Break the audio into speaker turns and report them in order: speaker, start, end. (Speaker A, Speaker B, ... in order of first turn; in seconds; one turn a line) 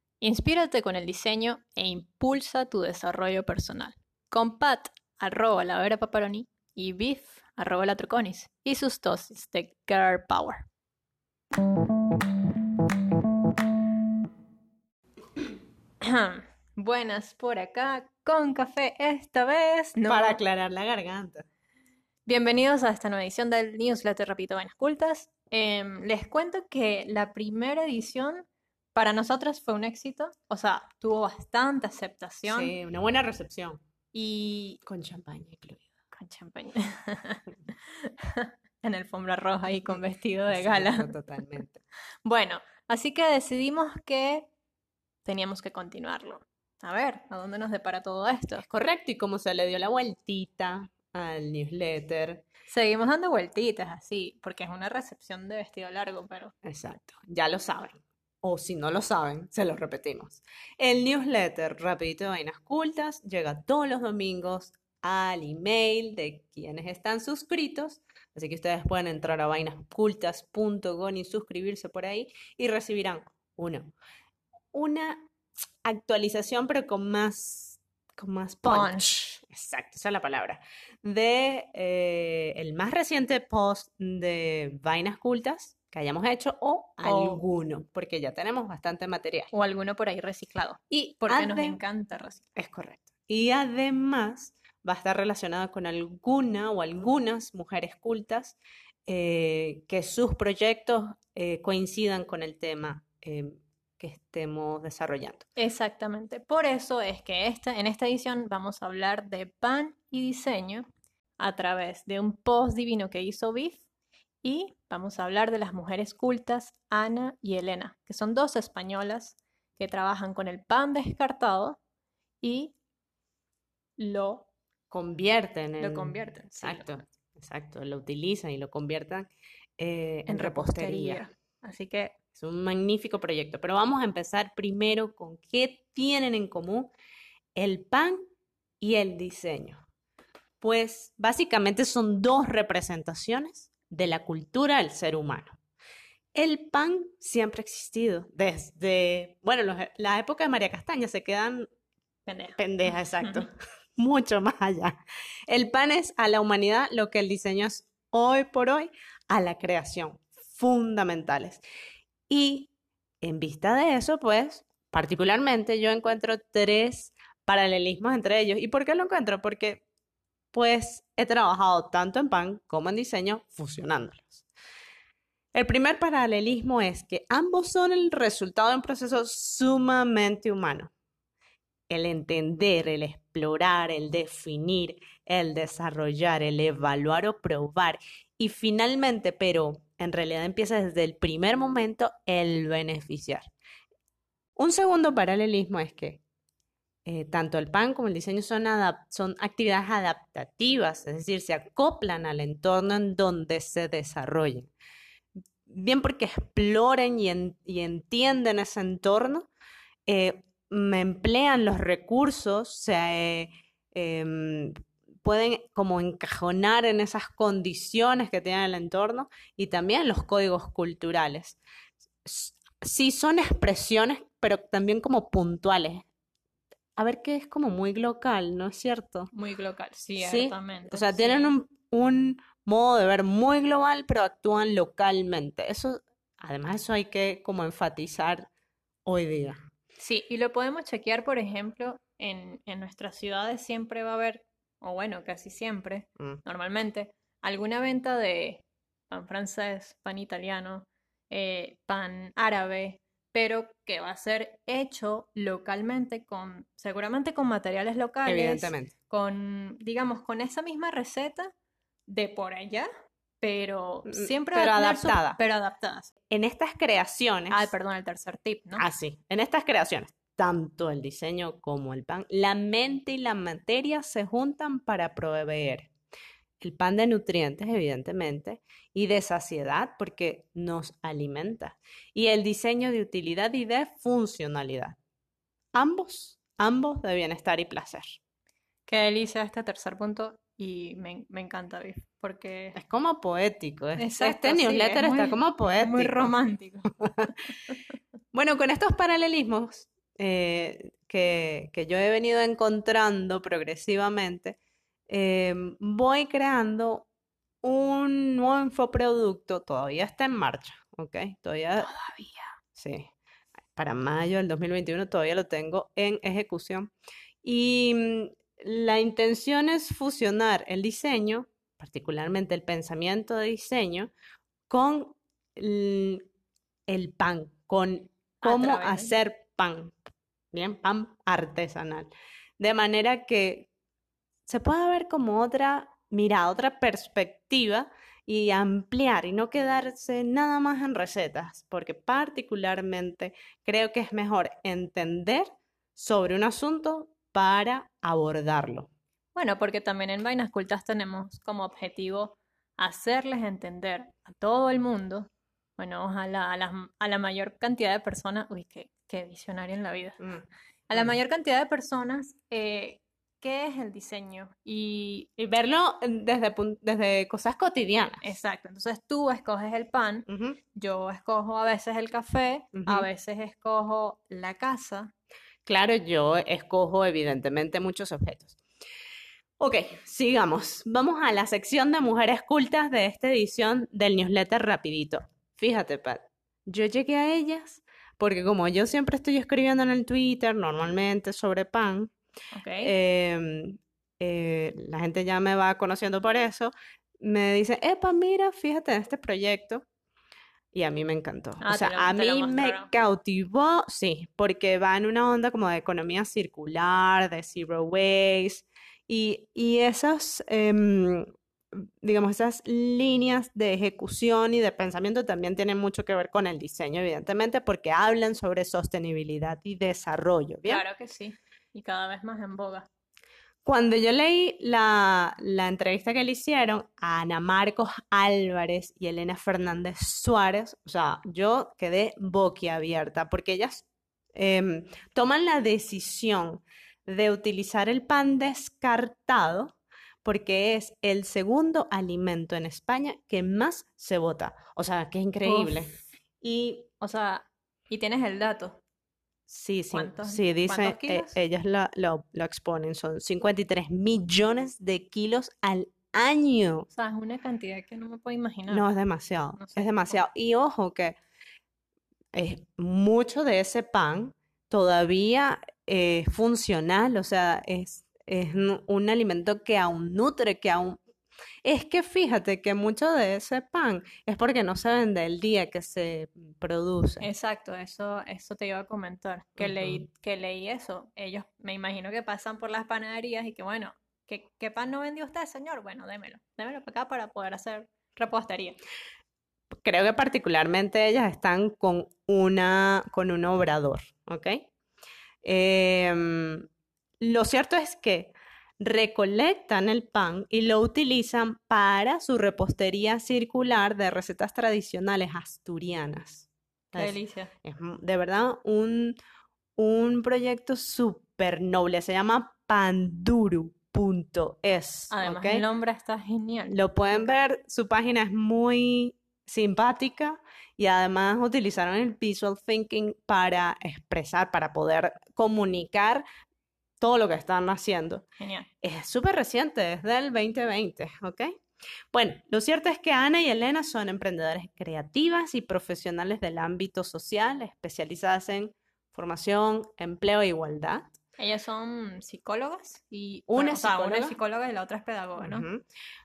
Speaker A: 0.2-10.7
Speaker A: 16.0-20.4
Speaker B: 20.1-21.4
Speaker A: 22.3-32.7
Speaker B: 32.5-33.8
Speaker A: 34.1-34.8
Speaker B: 34.9-35.9
Speaker A: 36.1-41.1
Speaker B: 40.5-41.8
Speaker A: 42.2-44.5
Speaker A: 45.2-48.6
Speaker B: 48.6-52.5
Speaker A: 52.7-56.5
Speaker B: 56.6-73.9
Speaker B: 74.7-75.3
Speaker B: 75.8-89.5
Speaker A: 78.7-79.1
Speaker A: 87.0-87.5
Speaker A: 89.5-92.4
Speaker B: 90.9-91.8
Speaker B: 92.6-105.5
Speaker A: 105.6-110.9
Speaker A: 111.4-113.8
Speaker A: 114.4-121.8
Speaker A: 122.4-122.8
Speaker A: 124.0-124.5
Speaker B: 124.9-131.2
Speaker A: 125.8-127.0
Speaker A: 130.3-132.2
Speaker B: 132.4-136.9
Speaker B: 137.6-138.2
Speaker B: 138.8-139.8
Speaker B: 140.6-145.6
Speaker B: 146.3-151.7
Speaker A: 152.3-153.5
Speaker B: 152.6-155.0
Speaker B: 155.5-161.6
Speaker B: 162.3-169.8
Speaker B: 170.5-174.5
Speaker B: 175.5-180.9
Speaker B: 181.9-193.5
Speaker B: 194.6-196.2
Speaker B: 197.1-204.7
Speaker B: 205.7-209.5
Speaker B: 210.1-221.6
Speaker B: 222.2-226.1
Speaker B: 227.0-229.3
Speaker A: 229.3-231.6
Speaker B: 230.2-238.5
Speaker B: 239.1-239.6
Speaker A: 240.0-261.5
Speaker B: 258.3-258.9
Speaker A: 262.1-262.9
Speaker A: 263.4-266.1
Speaker B: 264.1-265.4
Speaker B: 266.3-267.7
Speaker A: 267.5-268.9
Speaker B: 268.8-275.9
Speaker B: 276.6-285.0
Speaker B: 285.7-288.2
Speaker A: 288.9-292.8
Speaker B: 292.8-296.3
Speaker A: 294.0-296.9
Speaker B: 297.0-297.3
Speaker B: 298.3-304.6
Speaker B: 305.1-307.1
Speaker B: 307.6-311.9
Speaker A: 311.8-312.5
Speaker B: 312.8-313.1
Speaker B: 313.8-316.9
Speaker B: 317.4-324.1
Speaker B: 324.7-326.2
Speaker B: 326.9-329.9
Speaker A: 328.4-329.1
Speaker B: 330.5-333.7
Speaker B: 334.5-348.9
Speaker A: 349.4-360.2
Speaker B: 360.2-361.2
Speaker A: 360.9-365.3
Speaker B: 365.4-368.3
Speaker A: 368.2-375.1
Speaker B: 370.3-370.6
Speaker B: 372.8-373.1
Speaker B: 375.6-378.6
Speaker B: 379.6-392.1
Speaker A: 392.5-392.9
Speaker B: 392.8-399.9
Speaker B: 400.7-420.9
Speaker A: 401.6-402.9
Speaker A: 420.7-422.9
Speaker B: 423.6-446.9
Speaker A: 445.4-446.0
Speaker A: 447.0-448.8
Speaker B: 449.5-456.9
Speaker A: 449.9-451.4
Speaker A: 456.9-458.9
Speaker B: 458.7-461.1
Speaker A: 459.6-460.2
Speaker B: 462.3-471.0
Speaker B: 471.6-477.3
Speaker A: 477.2-488.8
Speaker B: 479.6-480.0
Speaker B: 489.8-494.7
Speaker B: 495.4-496.7
Speaker B: 497.2-509.2
Speaker A: 506.9-507.5
Speaker B: 509.8-515.6
Speaker A: 515.1-517.4
Speaker B: 516.7-526.2
Speaker B: 527.0-528.2
Speaker A: 528.4-528.7
Speaker B: 528.8-531.5
Speaker B: 532.1-541.1
Speaker A: 541.4-545.7
Speaker B: 543.5-544.4
Speaker B: 545.4-545.8